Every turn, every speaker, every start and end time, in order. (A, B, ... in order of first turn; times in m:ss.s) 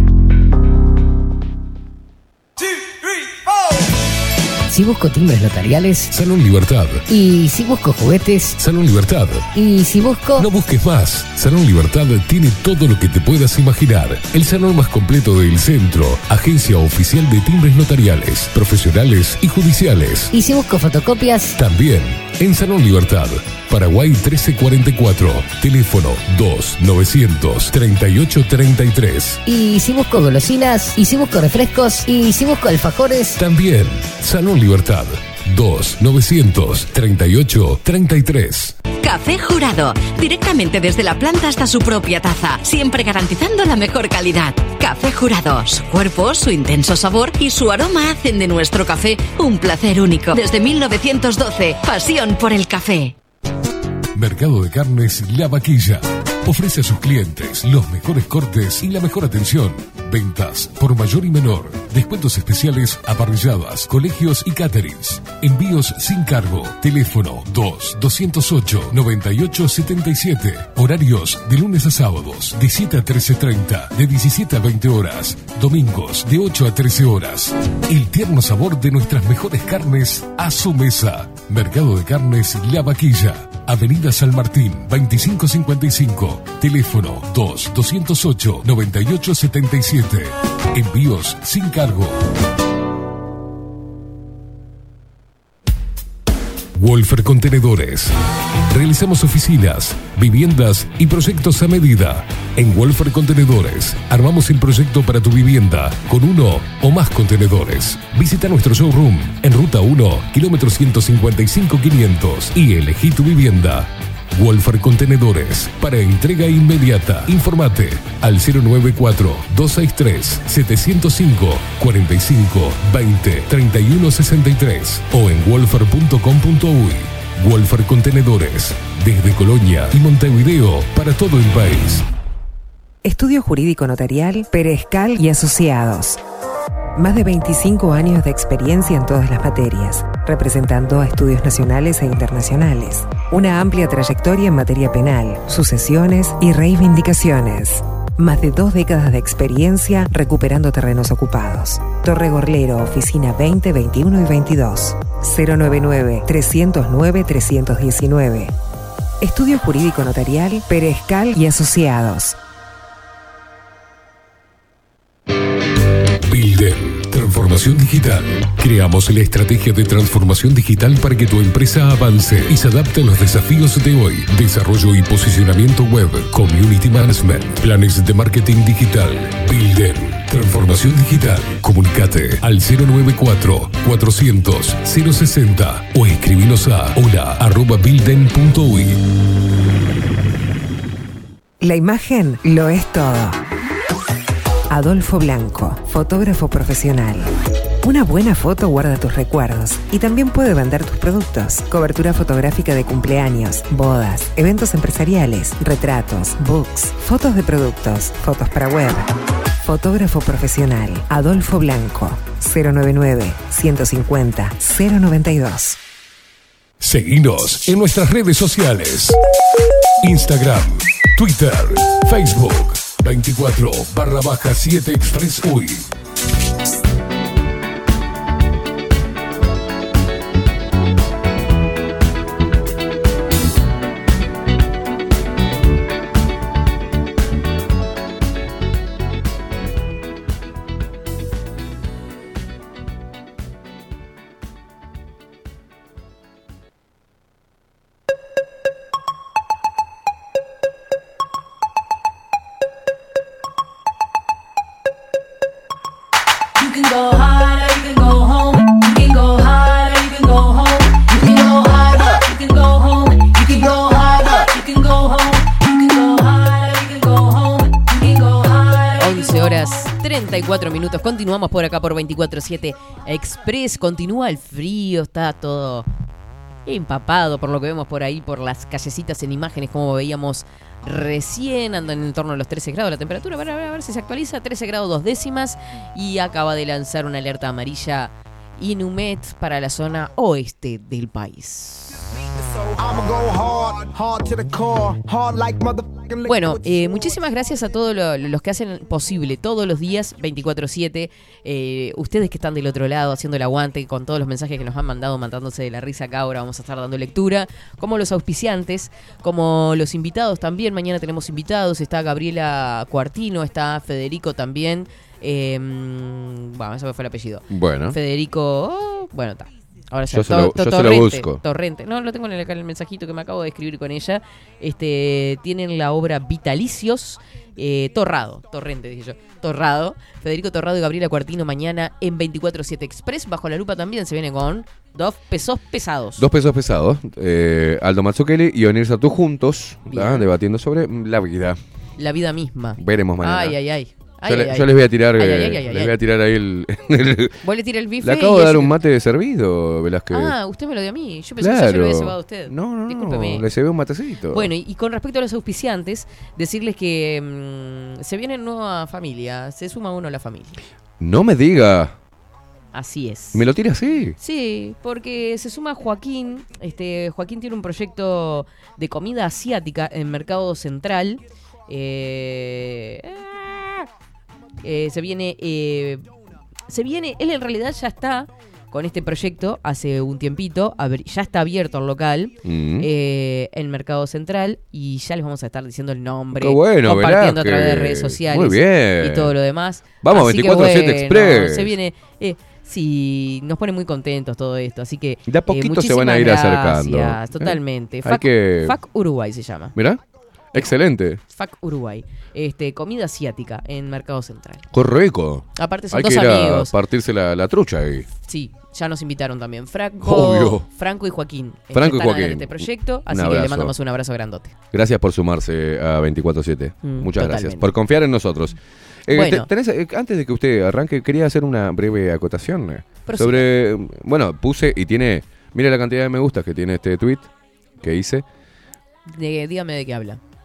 0:04.7-0:06.1 A
0:06.1-0:07.0 B
0:07.1-0:08.6 A
0:08.6-0:09.5 B
0:09.5-0:10.5 A
0:10.4-0:20.3 B
0:20.3-0:21.6 A
0:21.6-0:29.4 B
0:29.5-0:33.4 A
0:33.4-0:38.8 B
0:39.0-0:53.2 C
0:54.1-1:32.2 B
1:36.8-1:38.1 B
1:38.7-2:12.0 B
2:13.0-2:16.2 D
2:17.0-2:38.5 D
2:39.2-2:42.4 D
2:46.2-3:09.0 B
3:11.6-3:13.4 D
3:14.7-3:17.3 D
3:17.8-3:29.1 D
3:29.6-3:35.8 D
3:36.8-3:39.2 B
3:40.0-3:45.9 B
4:16.6-4:29.8 E
4:29.0-4:35.9 F
4:36.7-4:52.2 F
4:52.1-4:57.2 G
4:56.3-5:36.2 F
5:17.5-5:18.0 H
5:20.1-5:21.4 H
5:36.2-5:41.6 H
5:39.9-5:40.3 F
5:42.0-5:46.0 F
5:42.8-5:43.6 H
5:44.2-5:47.4 H
5:47.4-5:48.8 F
5:48.0-5:50.4 H
5:50.1-5:53.5 F
5:51.4-5:54.5 H
5:54.3-6:00.6 F
6:01.0-6:02.0 H
6:02.7-6:03.5 F
6:03.3-6:04.2 H
6:04.2-6:13.9 F
6:14.6-6:16.0 F
6:16.7-6:39.8 F
6:22.4-6:22.9 H
6:26.4-6:29.4 H
6:30.0-6:31.8 H
6:35.3-6:38.8 H
6:39.8-6:40.0 H
6:40.5-6:41.2 H
6:41.3-6:44.7 F
6:44.7-6:48.1 H
6:45.6-6:46.7 F
6:48.3-6:54.6 F
6:50.0-6:50.7 H
6:51.7-6:53.7 H
6:54.7-7:08.2 H
6:56.8-6:57.7 F
6:59.1-6:59.5 F
7:03.1-7:03.5 F
7:09.1-7:10.2 F